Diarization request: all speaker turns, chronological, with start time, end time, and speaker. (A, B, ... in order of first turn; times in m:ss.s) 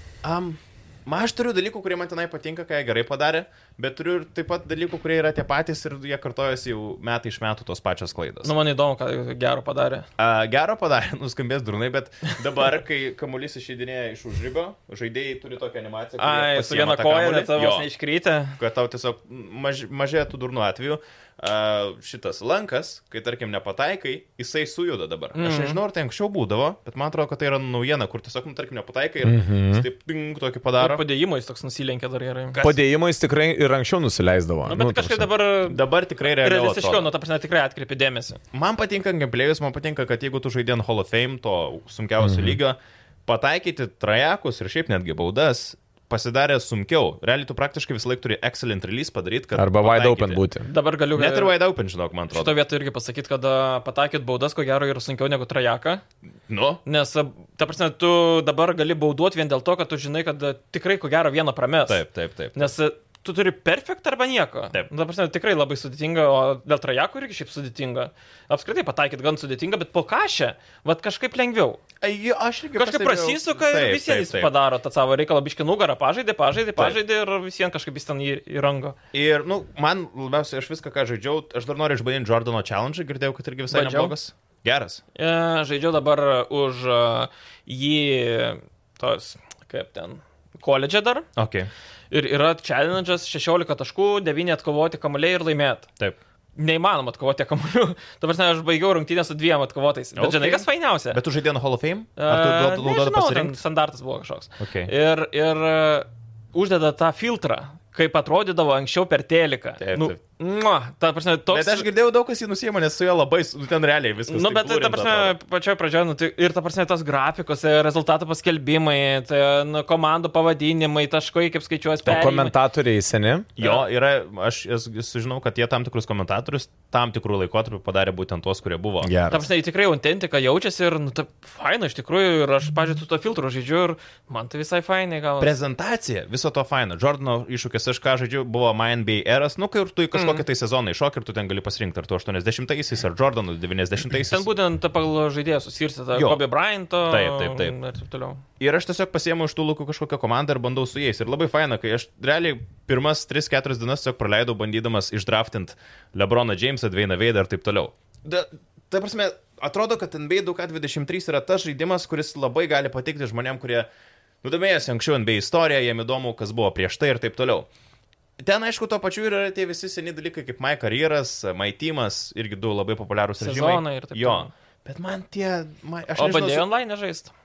0:00.2-0:08.5 A
0:08.4-0:10.1 B
0:10.2-0:17.9 A
0:16.2-0:18.6 B
0:18.6-0:31.0 A
0:25.4-0:25.8 B
0:29.2-0:29.9 C
0:30.8-0:32.6 B
0:32.5-0:32.8 A
0:32.6-0:35.3 C
0:34.7-0:35.8 B
0:35.6-0:37.1 A
0:36.4-0:38.4 B
0:38.5-0:50.4 A
0:42.2-0:42.6 C
0:49.6-0:50.7 C
0:50.7-0:51.6 B
0:51.2-0:52.6 A
0:52.3-0:56.0 B
0:56.5-0:56.8 A
0:56.8-1:11.8 B
1:01.9-1:02.7 A
1:12.0-1:14.5 A
1:12.8-1:19.0 B
1:19.1-1:25.0 A
1:23.7-1:24.2 B
1:25.2-1:31.3 B
1:31.4-1:31.7 A
1:32.1-1:35.9 B
1:36.6-1:41.2 B
1:40.2-1:43.6 A
1:42.2-1:51.9 B
1:44.6-1:44.9 A
1:49.8-1:50.2 A
1:51.5-1:55.4 A
1:54.3-2:02.5 B
2:02.0-2:03.5 C
2:03.6-2:09.1 A
2:03.6-2:03.8 B
2:09.0-2:09.5 C
2:09.3-2:15.5 B
2:15.4-2:24.5 A
2:20.1-2:20.4 B
2:24.3-2:28.4 B
2:26.1-2:26.4 A
2:27.1-2:27.8 A
2:28.6-2:43.9 A
2:44.4-2:47.7 A
2:48.4-2:56.6 A
2:53.4-2:54.5 B
2:56.2-2:57.3 B